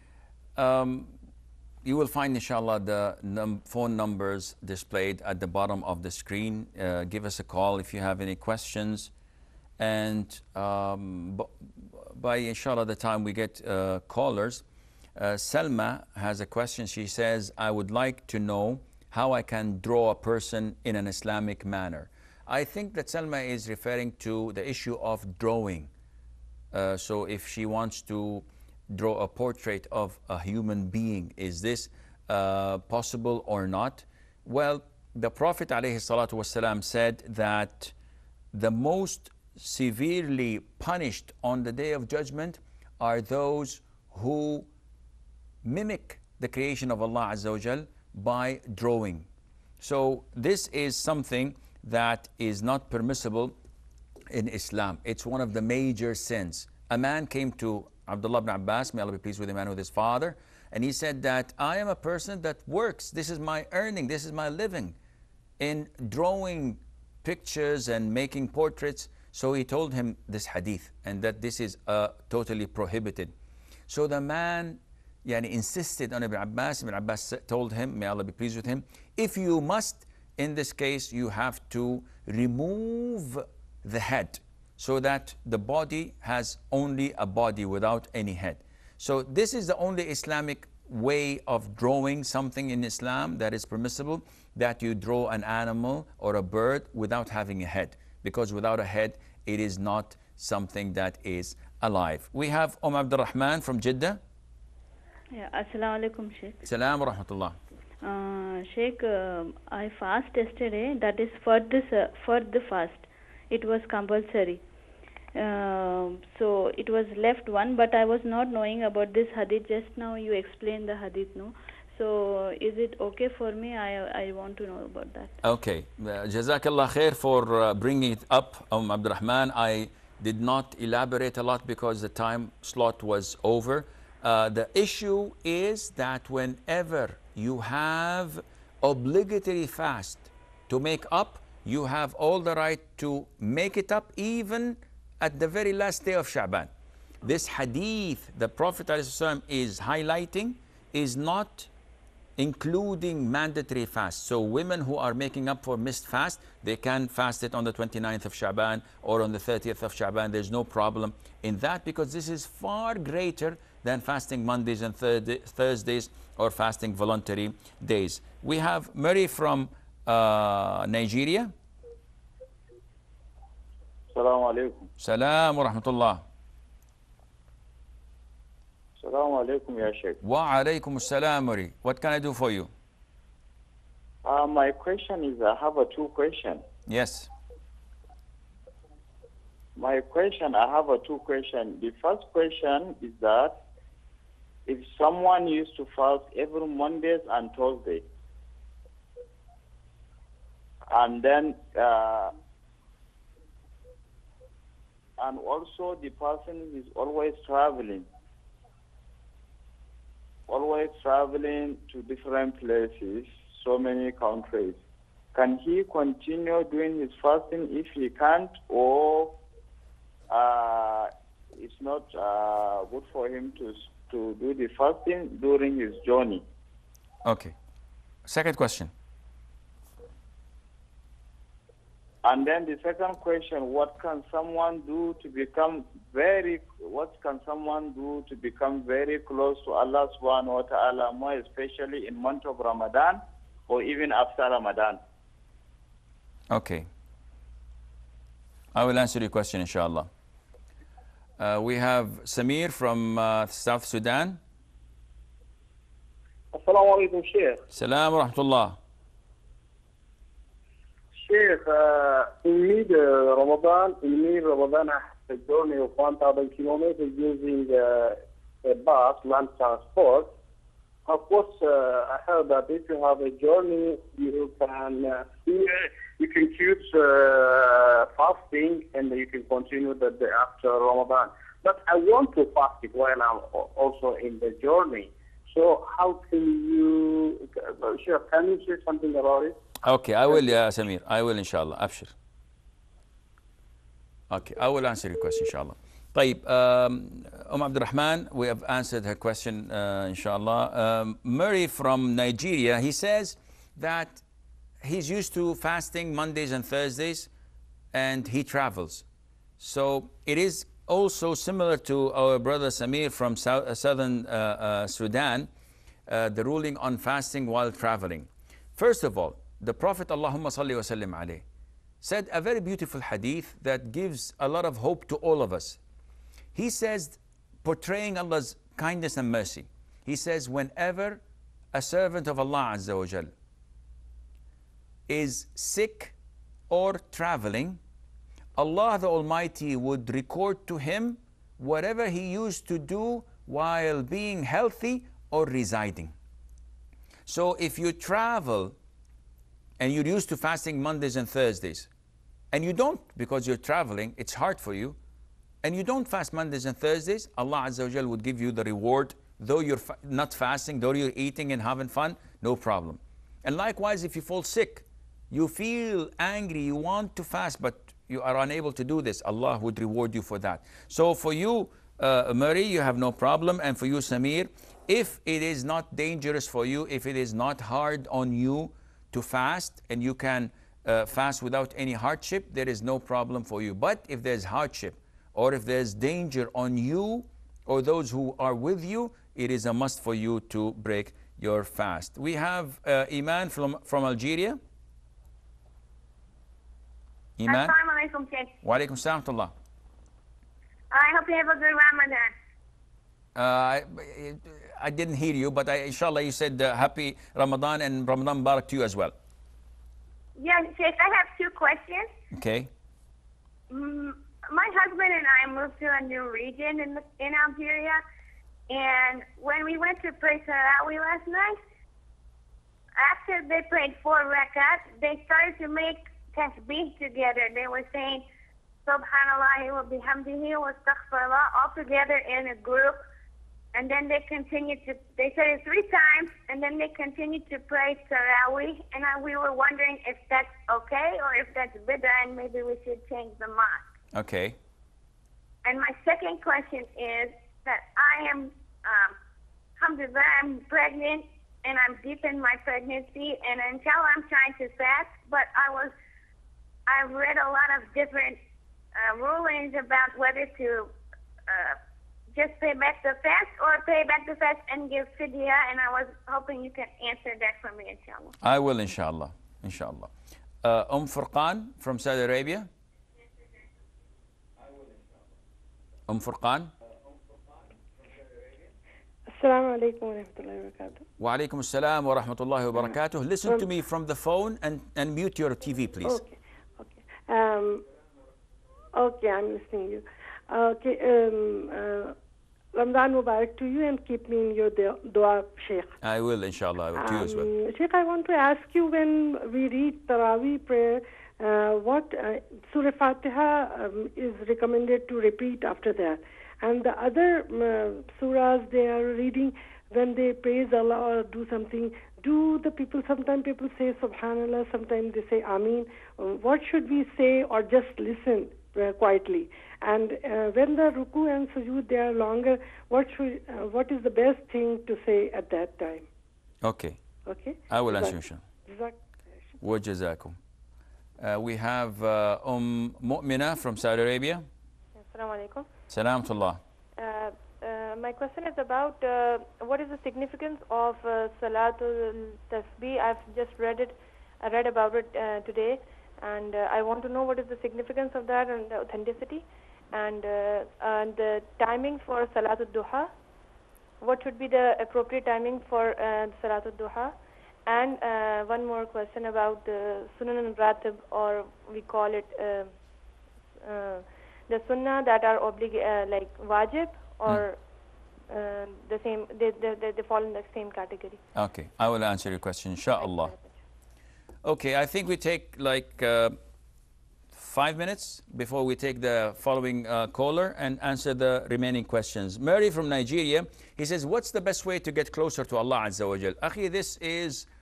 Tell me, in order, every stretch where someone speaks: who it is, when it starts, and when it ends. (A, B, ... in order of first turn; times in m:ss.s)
0:00.6-0:01.1 A
0:01.8-0:09.1 A
0:09.8-0:14.6 A
0:15.2-0:25.9 A
0:26.7-0:37.9 A
0:38.5-0:44.7 A
0:45.6-0:49.3 A
0:49.8-0:53.5 A
0:54.3-1:04.9 A
1:05.6-1:13.3 A
1:13.9-1:44.2 A
1:45.3-1:46.6 B
1:46.6-1:47.6 A
1:48.0-1:54.6 B
1:55.3-2:05.4 B
2:05.4-2:26.7 A
2:27.2-2:31.7 A
2:32.4-2:51.5 A
2:54.1-2:54.9 C
2:55.0-2:56.2 A
2:59.0-3:00.2 C
3:00.2-3:02.7 A
3:04.2-3:06.6 C
3:06.9-3:07.3 A
3:09.8-3:13.6 C
3:14.6-3:18.0 C
3:20.9-3:22.3 C
3:25.2-3:28.1 C
3:30.5-3:34.8 C
3:35.3-3:39.4 C
3:40.3-3:46.4 C
3:47.2-3:47.5 A
3:48.2-3:48.9 A
3:52.2-4:05.0 C
4:06.5-4:06.9 A
4:08.7-4:10.1 A
4:11.4-4:14.4 A
4:16.5-4:17.6 D
4:17.7-4:18.8 A
4:21.2-4:30.3 D
4:31.0-4:49.6 D
4:49.8-4:52.1 A
4:54.3-5:04.2 A
5:04.8-5:07.3 A
5:07.9-5:09.0 A
5:09.6-5:15.5 A
5:16.1-5:21.4 A
5:22.0-5:25.8 A
5:26.5-5:31.2 A
5:31.7-5:33.3 A
5:35.1-5:36.1 A
5:36.7-5:37.8 A
5:38.6-5:46.1 A
5:47.3-5:48.7 A
5:49.8-5:51.9 A
5:52.5-5:55.0 A
5:55.6-6:34.6 A
6:37.4-6:37.7 A
6:37.5-6:38.6 E
6:38.6-6:39.5 A
6:40.9-6:42.3 E
6:43.4-6:49.1 A
6:50.4-6:52.1 E
6:52.3-6:52.7 A
6:53.7-6:58.0 E
6:58.7-7:01.6 E
7:03.0-7:08.2 E
7:08.8-7:13.0 E
7:13.7-7:23.9 E
7:24.1-7:24.6 A
7:25.6-7:29.2 E
7:29.8-7:35.9 E
7:36.9-7:38.4 E
7:38.9-7:40.9 E
7:41.5-7:41.8 E
7:42.3-7:48.4 E
7:48.4-7:50.1 A
7:50.6-7:52.7 A
7:56.1-7:56.7 A
7:59.3-8:01.0 F
8:01.2-8:06.2 A
8:03.4-8:03.7 F
8:06.0-8:07.8 F
8:08.9-8:12.1 F
8:12.7-8:15.9 F
8:16.0-8:17.5 A
8:17.0-8:46.0 F
8:46.6-8:47.0 A
8:47.2-8:49.2 F
8:47.7-8:48.4 A
8:49.6-8:50.4 A
8:51.2-8:54.4 A
8:55.0-8:55.7 G
8:55.9-8:56.6 A
8:57.0-9:13.1 G
9:14.0-9:22.7 G
9:23.6-9:27.6 G
9:28.3-9:31.2 G
9:31.3-9:33.3 A
9:33.0-9:33.5 G
9:34.4-9:36.4 A
9:37.3-9:47.5 A